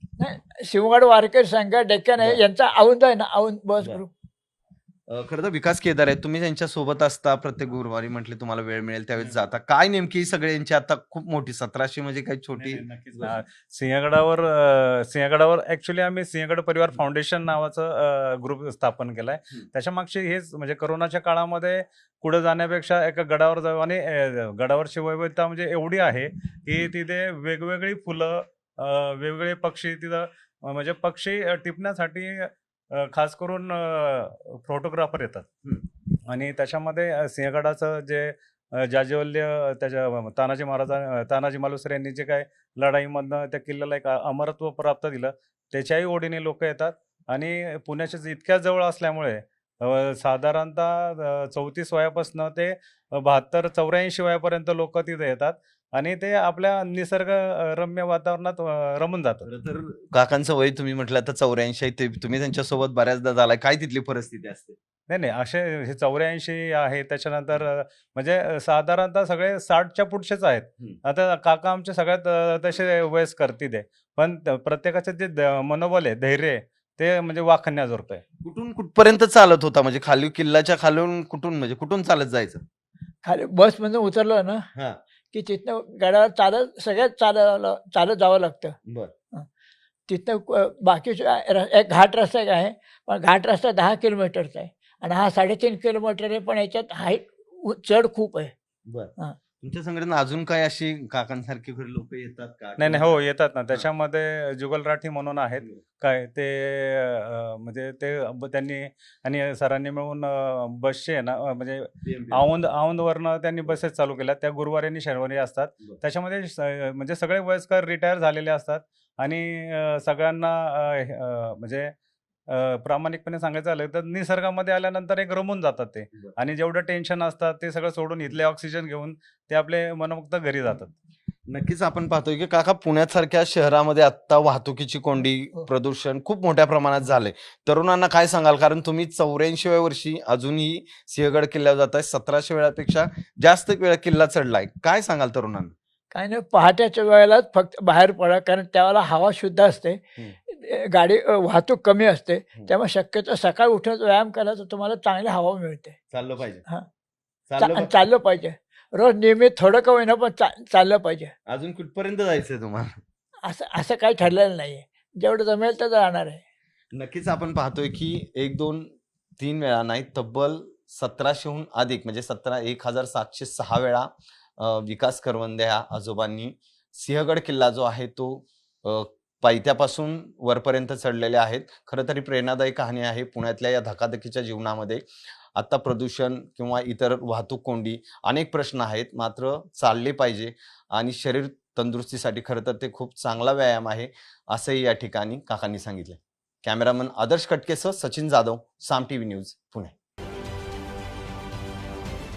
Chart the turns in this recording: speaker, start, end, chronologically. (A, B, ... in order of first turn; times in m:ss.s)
0:00.2-0:04.1 A
0:05.1-0:13.4 B
0:12.6-0:35.5 C
0:36.2-0:59.5 C
0:59.4-1:04.8 B
1:05.1-1:18.2 C
1:18.4-1:22.6 B
1:23.2-1:24.6 A
1:25.3-1:28.8 A
1:28.9-1:29.1 B
1:30.1-1:38.5 A
1:38.9-1:43.2 B
1:42.8-2:01.9 C
1:52.0-1:52.5 B
2:02.5-2:10.9 C
2:11.5-2:25.7 B
2:26.1-2:36.0 A
2:36.1-2:36.6 B
2:37.5-2:38.0 B
2:37.6-2:41.3 A
2:41.5-2:43.0 B
2:43.4-2:46.4 A
2:46.9-3:05.0 B
3:05.6-3:19.9 B